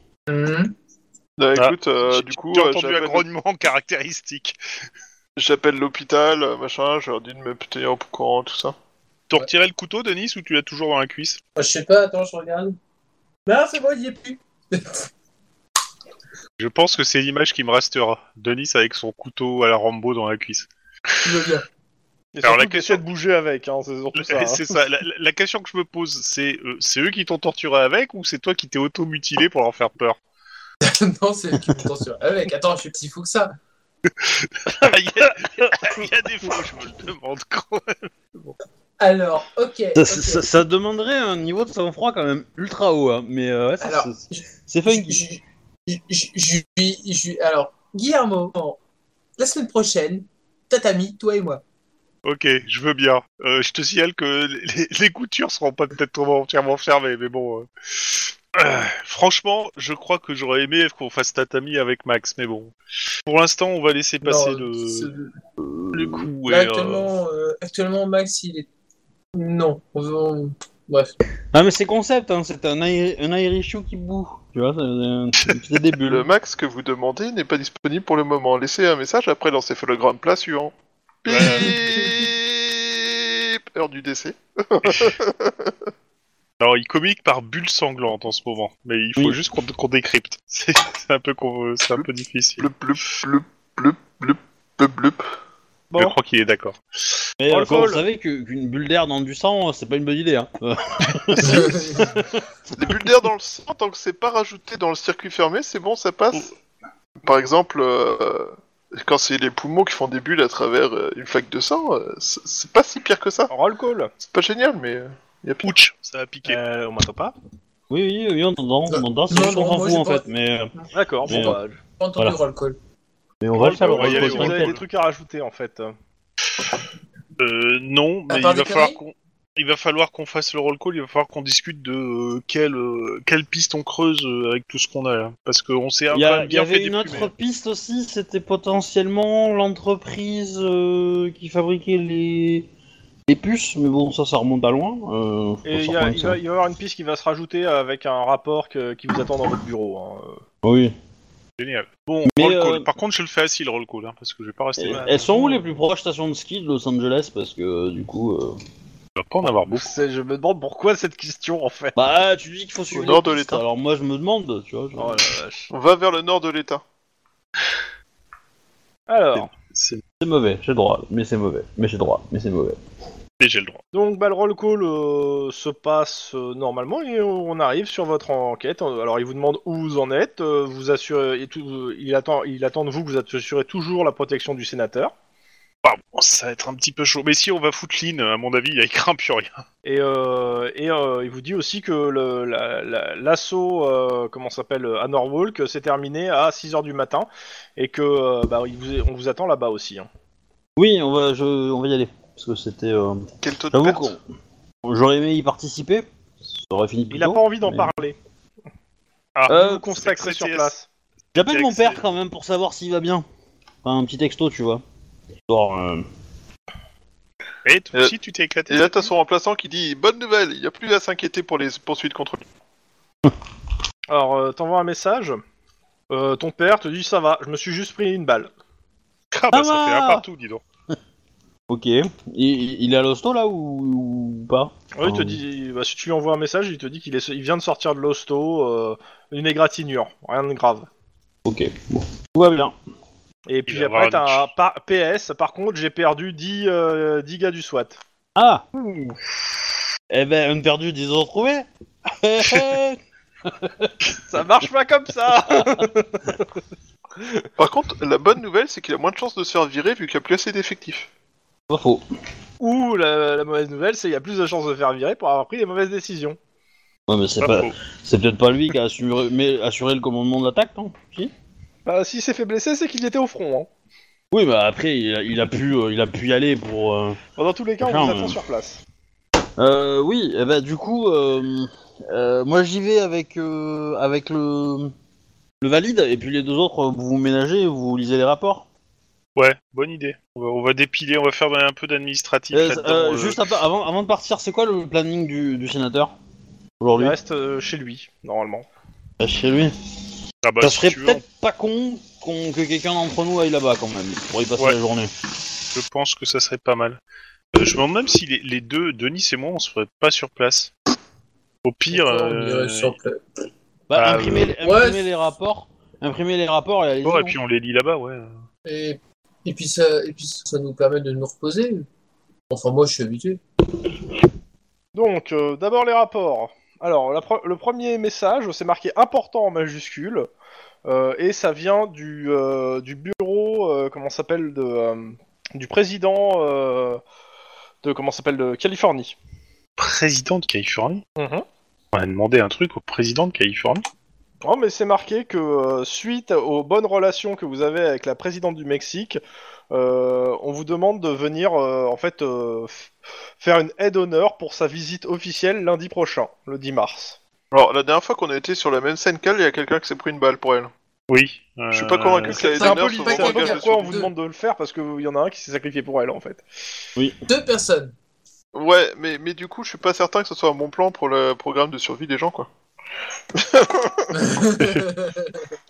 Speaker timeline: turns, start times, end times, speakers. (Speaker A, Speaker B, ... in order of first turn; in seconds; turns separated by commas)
Speaker A: 0.3-0.7, Speaker B: 1.4-3.2, Speaker C: 1.6-4.6, Speaker B: 5.4-8.8, Speaker C: 9.3-11.4, Speaker A: 11.6-12.8, Speaker A: 13.5-15.1, Speaker C: 16.6-20.7, Speaker A: 21.2-21.6, Speaker D: 22.4-24.7, Speaker C: 22.4-23.0, Speaker C: 24.1-30.2, Speaker A: 30.8-33.5, Speaker C: 34.2-38.6, Speaker A: 39.0-40.4, Speaker E: 40.0-45.3, Speaker A: 43.8-48.8, Speaker A: 49.4-51.6, Speaker C: 52.2-62.7, Speaker C: 63.2-65.1, Speaker A: 64.2-65.3, Speaker E: 65.6-66.3, Speaker C: 65.9-67.1, Speaker A: 66.5-68.7, Speaker A: 69.3-71.2, Speaker E: 71.5-76.3, Speaker B: 76.1-85.8, Speaker C: 81.3-81.8, Speaker A: 81.4-81.8, Speaker C: 86.6-92.7, Speaker B: 92.6-95.2, Speaker C: 96.0-96.8, Speaker E: 97.4-102.2, Speaker D: 97.5-98.0, Speaker A: 101.4-102.2, Speaker B: 102.8-106.5, Speaker B: 107.2-113.5, Speaker D: 113.5-114.1, Speaker B: 114.2-115.7, Speaker C: 115.6-116.6, Speaker D: 116.5-117.3, Speaker E: 117.9-120.7, Speaker A: 118.9-122.8, Speaker D: 120.9-121.8, Speaker E: 121.3-121.6, Speaker E: 123.4-124.8, Speaker D: 123.5-125.9, Speaker C: 123.7-124.8, Speaker C: 127.4-137.3, Speaker A: 128.3-129.0, Speaker E: 136.1-142.7, Speaker E: 143.3-146.4, Speaker D: 145.6-150.4, Speaker E: 150.6-150.9, Speaker C: 151.6-155.2, Speaker E: 152.3-152.9, Speaker E: 154.8-158.6, Speaker D: 154.9-155.7, Speaker C: 159.2-159.9, Speaker D: 159.7-161.9, Speaker E: 161.9-165.3, Speaker B: 162.9-163.6, Speaker D: 165.0-165.7, Speaker B: 165.7-166.8, Speaker D: 169.1-169.5, Speaker C: 169.4-170.0, Speaker E: 170.2-172.8, Speaker C: 173.4-173.8, Speaker D: 173.9-185.1, Speaker C: 185.8-189.6, Speaker D: 189.8-200.1, Speaker E: 200.8-204.2, Speaker B: 203.4-204.1, Speaker E: 204.8-206.1, Speaker E: 206.6-207.9, Speaker D: 207.1-208.2, Speaker C: 209.4-210.7, Speaker D: 209.5-210.9, Speaker E: 211.3-213.2, Speaker C: 211.5-212.0, Speaker E: 213.8-214.8, Speaker E: 215.5-216.1, Speaker C: 217.6-219.1, Speaker B: 218.7-222.4, Speaker D: 224.1-225.4, Speaker D: 226.1-228.5, Speaker C: 229.3-230.6, Speaker E: 229.5-230.2, Speaker E: 231.7-235.4, Speaker D: 235.0-240.9, Speaker E: 241.5-242.8, Speaker D: 243.5-248.0, Speaker C: 243.7-244.5, Speaker E: 248.4-248.6, Speaker C: 248.8-249.1, Speaker E: 250.1-254.1, Speaker D: 254.3-256.4, Speaker D: 257.2-257.4, Speaker B: 257.6-261.1, Speaker E: 261.7-262.0, Speaker D: 262.6-266.4, Speaker E: 267.1-271.3, Speaker C: 267.4-267.7, Speaker D: 271.9-273.7, Speaker E: 274.3-277.2, Speaker D: 277.4-278.8, Speaker E: 277.8-278.4, Speaker E: 279.6-284.9, Speaker E: 285.6-288.6, Speaker C: 289.4-293.4, Speaker E: 292.5-296.1, Speaker E: 296.8-297.1, Speaker D: 297.0-298.7, Speaker E: 299.2-299.8, Speaker C: 300.4-301.2, Speaker E: 300.6-305.1, Speaker C: 305.7-307.0, Speaker C: 307.5-310.7, Speaker C: 311.6-312.9, Speaker A: 311.9-313.2, Speaker E: 313.9-317.4, Speaker C: 314.0-314.5, Speaker A: 314.6-315.0, Speaker C: 317.0-318.4, Speaker A: 318.6-321.9, Speaker A: 322.5-323.4, Speaker D: 324.9-330.3, Speaker D: 330.9-337.0, Speaker D: 337.8-339.1, Speaker C: 339.8-341.0, Speaker D: 341.2-341.4, Speaker C: 341.9-343.8, Speaker D: 344.4-349.2, Speaker D: 349.7-357.2, Speaker B: 357.5-360.7, Speaker C: 361.1-362.4, Speaker B: 361.7-364.1, Speaker A: 362.3-364.1, Speaker D: 362.4-366.4, Speaker A: 367.3-367.9, Speaker B: 368.6-372.5, Speaker B: 373.4-374.3, Speaker A: 374.1-375.4